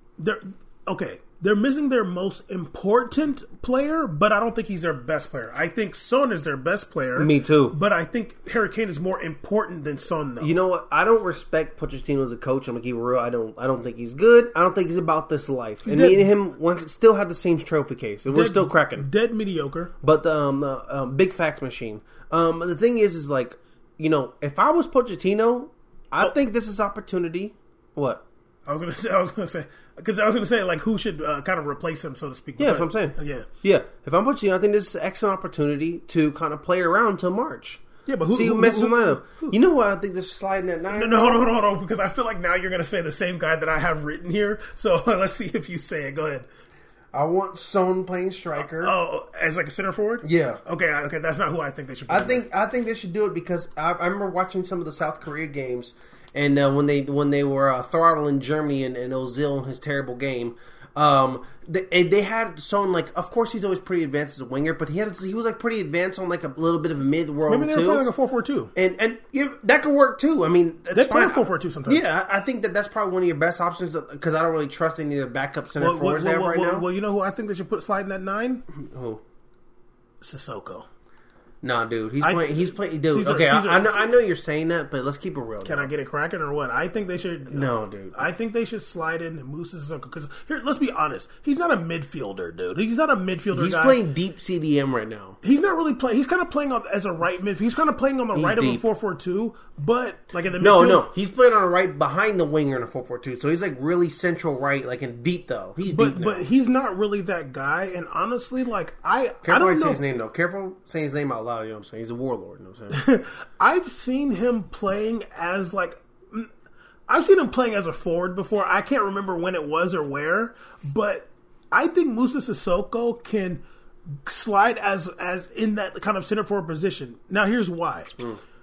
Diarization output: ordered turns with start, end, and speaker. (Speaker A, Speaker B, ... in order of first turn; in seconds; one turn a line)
Speaker A: 0.2-10.6
Speaker B: 7.2-7.8
Speaker B: 10.4-19.1
Speaker A: 15.8-16.3
Speaker A: 18.3-19.9
Speaker B: 20.0-28.2
Speaker A: 28.7-33.5
Speaker B: 32.6-41.5
Speaker A: 38.1-39.5
Speaker A: 40.9-46.5
Speaker B: 47.1-48.9
Speaker A: 48.6-52.4
Speaker B: 50.2-50.6
Speaker B: 52.1-68.0
Speaker A: 67.5-68.7
Speaker B: 68.8-76.9
Speaker A: 70.9-72.1
Speaker A: 75.8-78.6
Speaker B: 78.7-79.2
Speaker A: 80.2-80.9
Speaker B: 81.6-85.9
Speaker A: 82.2-84.1
Speaker A: 85.6-94.0
Speaker B: 87.5-88.2
Speaker B: 93.5-95.4
Speaker A: 95.4-101.1
Speaker B: 98.3-98.8
Speaker B: 100.6-106.5
Speaker A: 105.9-110.0
Speaker B: 109.4-113.0
Speaker A: 112.9-116.5
Speaker A: 117.1-123.6
Speaker A: 124.2-128.2